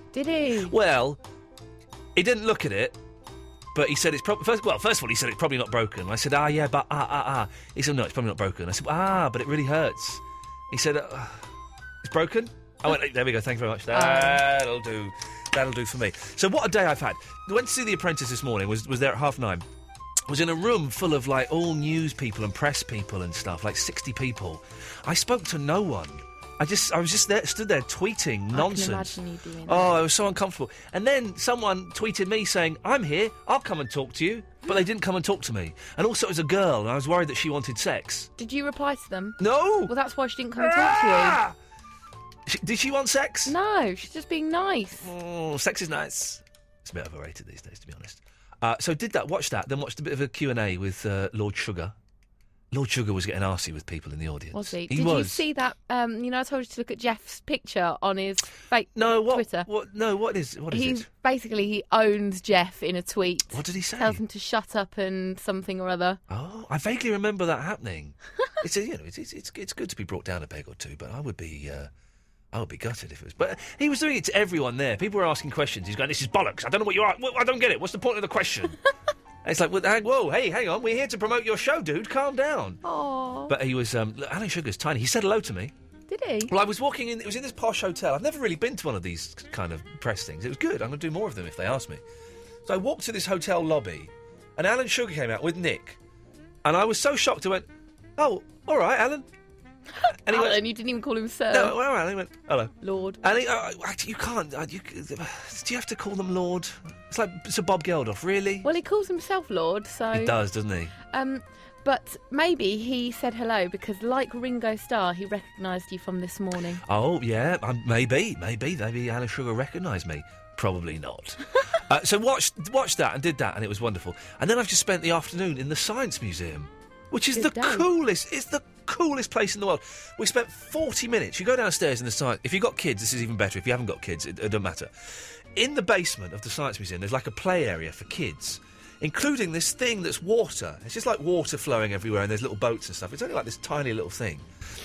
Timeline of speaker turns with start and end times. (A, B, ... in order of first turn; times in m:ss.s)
0:00.1-0:00.8 A
0:00.6-0:01.2 B
0:02.2-0:03.0 B
0:03.7-0:11.5 B
0:12.0-0:19.6 B
0:13.9-0:14.4 A
0:20.3-0:38.3 B
0:28.5-0:30.0 A
0:38.4-0:41.4 A
0:39.4-0:39.9 B
0:40.6-0:41.6 B
0:42.5-0:43.5 B
0:43.5-0:45.1 A
0:45.0-0:52.0 B
0:52.7-0:55.4 B
0:54.5-0:59.7 A
0:59.0-1:01.1 B
1:00.7-1:06.2 A
1:03.5-1:04.2 B
1:06.3-1:11.9 B
1:12.5-1:18.8 B
1:19.4-1:22.8 B
1:22.8-1:23.5 A
1:23.5-1:25.7 B
1:26.1-1:26.5 A
1:26.5-1:32.0 B
1:32.6-1:36.0 B
1:36.6-1:39.3 B
1:40.1-1:41.8 A
1:40.3-1:40.6 B
1:41.5-1:48.7 B
1:42.8-1:43.2 A
1:48.6-1:50.4 A
1:50.1-1:51.0 B
1:51.0-1:56.8 A
1:56.8-2:24.5 B
2:07.3-2:07.9 A